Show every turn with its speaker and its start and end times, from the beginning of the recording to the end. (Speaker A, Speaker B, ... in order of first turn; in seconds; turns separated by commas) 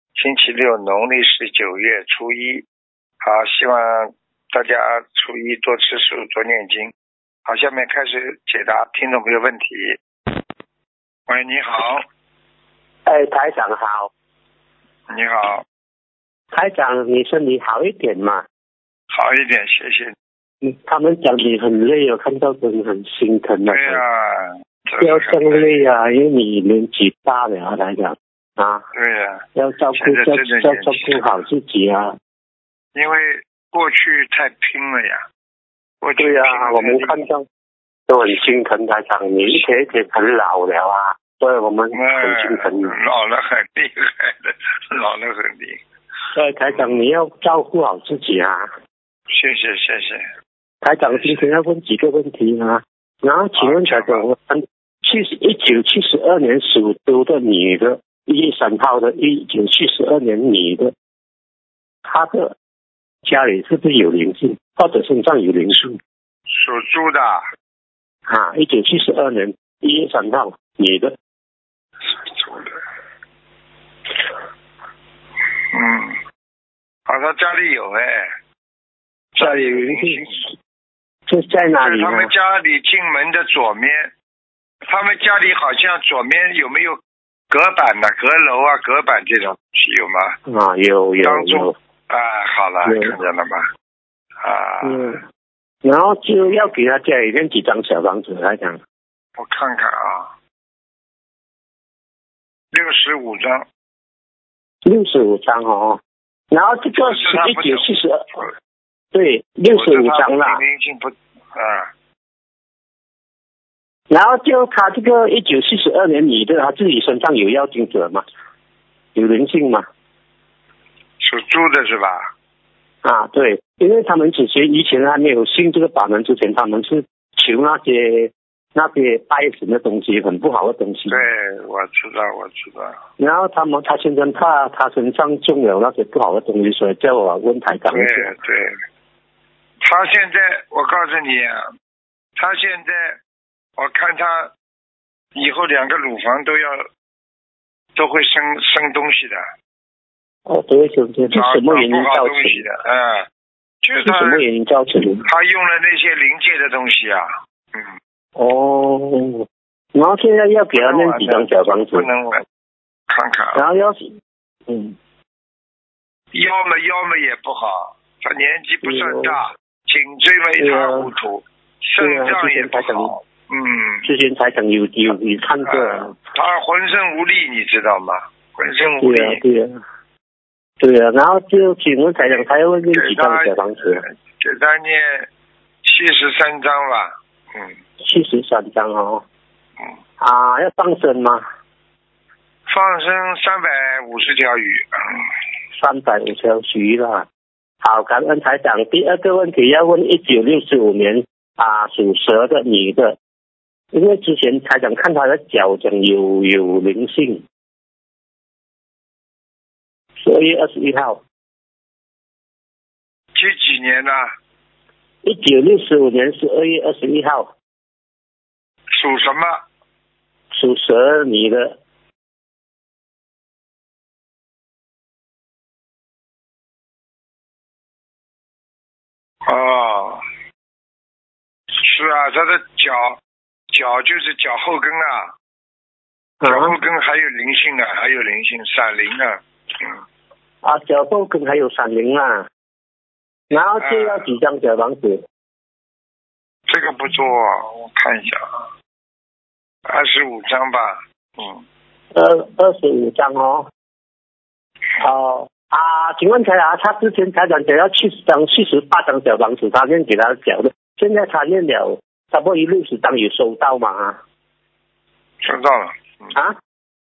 Speaker A: 0.2-2.6, Speaker A: 3.2-6.9, Speaker A: 7.5-10.0, Speaker A: 11.3-12.0, Speaker B: 13.1-14.1, Speaker A: 15.1-15.7, Speaker B: 16.5-18.4, Speaker A: 19.1-20.1, Speaker B: 20.6-24.0, Speaker A: 23.7-25.9, Speaker B: 25.0-28.9, Speaker A: 28.9-31.3, Speaker B: 29.6-32.2, Speaker A: 33.0-35.2, Speaker A: 36.0-37.1, Speaker B: 36.2-37.5, Speaker B: 38.1-43.0, Speaker A: 41.9-45.8, Speaker B: 46.3-48.7, Speaker A: 46.7-47.0, Speaker A: 49.3-50.2, Speaker B: 50.8-60.9, Speaker A: 53.6-54.2, Speaker B: 62.0-62.5, Speaker B: 63.2-66.0, Speaker A: 66.5-67.4, Speaker B: 68.3-71.2, Speaker A: 72.0-72.8, Speaker A: 75.7-76.2, Speaker A: 77.1-78.3, Speaker A: 79.4-80.4, Speaker B: 79.4-80.5, Speaker B: 81.3-82.3, Speaker A: 81.8-84.1, Speaker A: 84.9-87.0, Speaker A: 87.5-90.4, Speaker B: 90.5-91.8, Speaker A: 91.2-93.7, Speaker B: 92.8-93.2, Speaker A: 94.4-95.2, Speaker B: 94.8-95.2, Speaker B: 95.8-98.8, Speaker A: 96.4-96.7, Speaker A: 99.4-100.3, Speaker A: 102.7-103.7, Speaker B: 104.8-106.0, Speaker B: 106.5-108.4, Speaker A: 106.9-107.9, Speaker B: 109.1-110.6, Speaker A: 109.7-111.9, Speaker B: 114.1-118.2, Speaker B: 119.2-119.9, Speaker A: 121.2-122.2, Speaker B: 123.0-131.3, Speaker A: 131.1-133.0, Speaker B: 133.2-138.3, Speaker A: 137.9-138.8, Speaker A: 139.8-141.7, Speaker A: 142.4-143.2, Speaker A: 143.8-144.5, Speaker A: 145.4-146.9, Speaker A: 147.9-149.4, Speaker B: 150.5-152.6, Speaker A: 151.3-153.3, Speaker A: 153.8-154.4, Speaker B: 154.0-155.3, Speaker A: 155.3-157.9, Speaker B: 158.4-162.1, Speaker A: 160.8-162.4, Speaker A: 163.1-163.6, Speaker B: 163.6-164.1, Speaker B: 164.7-165.0, Speaker A: 166.3-174.1, Speaker B: 168.8-169.4, Speaker B: 170.6-171.1, Speaker B: 172.0-173.1, Speaker B: 174.0-176.1, Speaker A: 175.7-179.4, Speaker B: 179.0-179.8, Speaker B: 180.8-184.0, Speaker A: 182.9-185.3, Speaker A: 185.8-187.8, Speaker B: 188.0-189.2, Speaker B: 190.2-191.4, Speaker A: 192.7-195.2, Speaker B: 195.7-197.2, Speaker B: 197.8-203.2, Speaker B: 203.9-207.4, Speaker B: 210.2-211.2, Speaker A: 213.3-214.3, Speaker B: 215.2-217.5, Speaker A: 218.9-219.6, Speaker B: 220.5-221.8, Speaker A: 229.4-230.2, Speaker A: 231.8-233.2, Speaker A: 233.7-235.3, Speaker B: 236.4-236.8, Speaker A: 236.5-240.0, Speaker B: 240.6-242.5, Speaker B: 243.5-245.2, Speaker A: 243.8-244.3, Speaker A: 246.7-248.5, Speaker A: 249.9-251.6, Speaker B: 252.1-253.7, Speaker B: 255.0-264.2, Speaker A: 265.4-266.4